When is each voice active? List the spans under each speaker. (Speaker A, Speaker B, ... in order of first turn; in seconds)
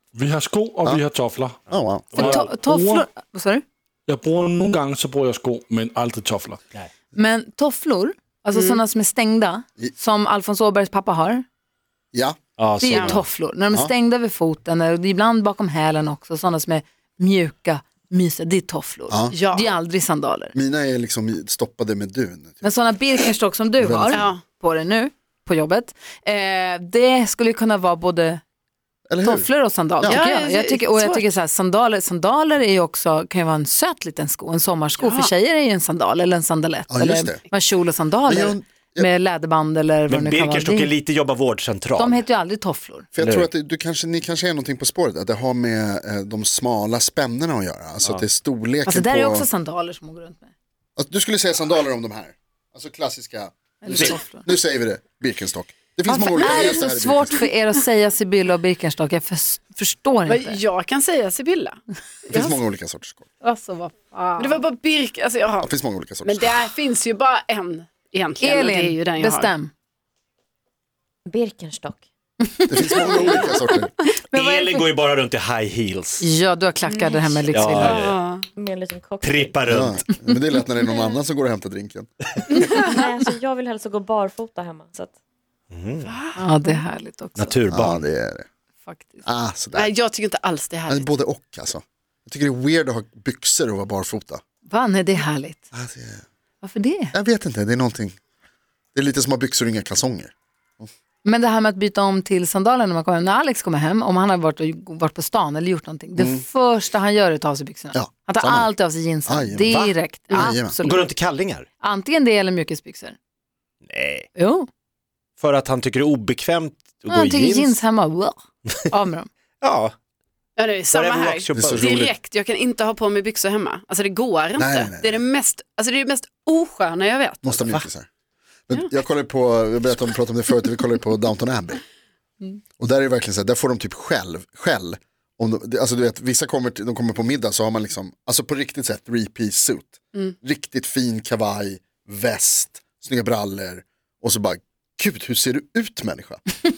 Speaker A: 0.1-1.6, 2.1-3.1, 4.1-6.7
Speaker B: 1.7-2.2, 12.1-12.4, 19.1-19.4, 20.5-22.7, 23.8-24.3, 29.1-29.5, 30.0-30.3, 36.9-37.4, 38.3-39.1, 43.1-49.5, 51.0-57.4, 62.3-63.3, 65.6-66.6, 72.7-73.9, 79.7-82.1, 87.7-88.5, 89.2-89.9, 90.9-94.4, 95.7-96.2, 97.1-98.2, 98.9-100.9, 106.2-106.4, 107.9-108.7, 109.3-110.8, 121.6-122.1, 124.6-125.2, 127.4-128.1, 128.7-131.8, 132.8-146.4
Speaker C: 1.7-2.2, 12.6-13.2, 40.1-42.2, 43.2-43.5, 74.3-76.3, 77.5-78.2, 79.2-80.0, 85.7-86.2, 87.4-88.0, 109.7-110.0, 110.8-111.7, 113.8-114.3, 115.4-117.8, 119.6-119.9, 120.9-122.1
Speaker D: 2.1-3.6, 7.1-11.4, 12.8-20.5, 22.6-28.4, 29.2-40.9, 42.0-43.1, 48.9-50.5, 53.8-54.5, 56.1-60.6, 63.4-64.6, 68.4-69.7, 72.5-73.5, 74.1-74.9, 76.2-78.0, 86.4-87.5, 88.8-89.2, 94.7-95.6, 96.6-97.1, 101.2-111.1, 111.8-113.2, 114.4-114.7, 117.1-119.3
Speaker E: 8.5-8.8, 12.9-13.2, 19.3-19.7, 24.1-24.4, 30.0-31.2, 35.0-35.3, 60.3-61.8, 62.3-62.6, 64.4-65.7, 66.2-69.5, 77.8-78.4, 82.5-83.0, 86.0-86.4, 89.7-91.1, 120.6-127.6
Speaker F: 71.3-72.0, 78.5-79.6, 82.6-85.1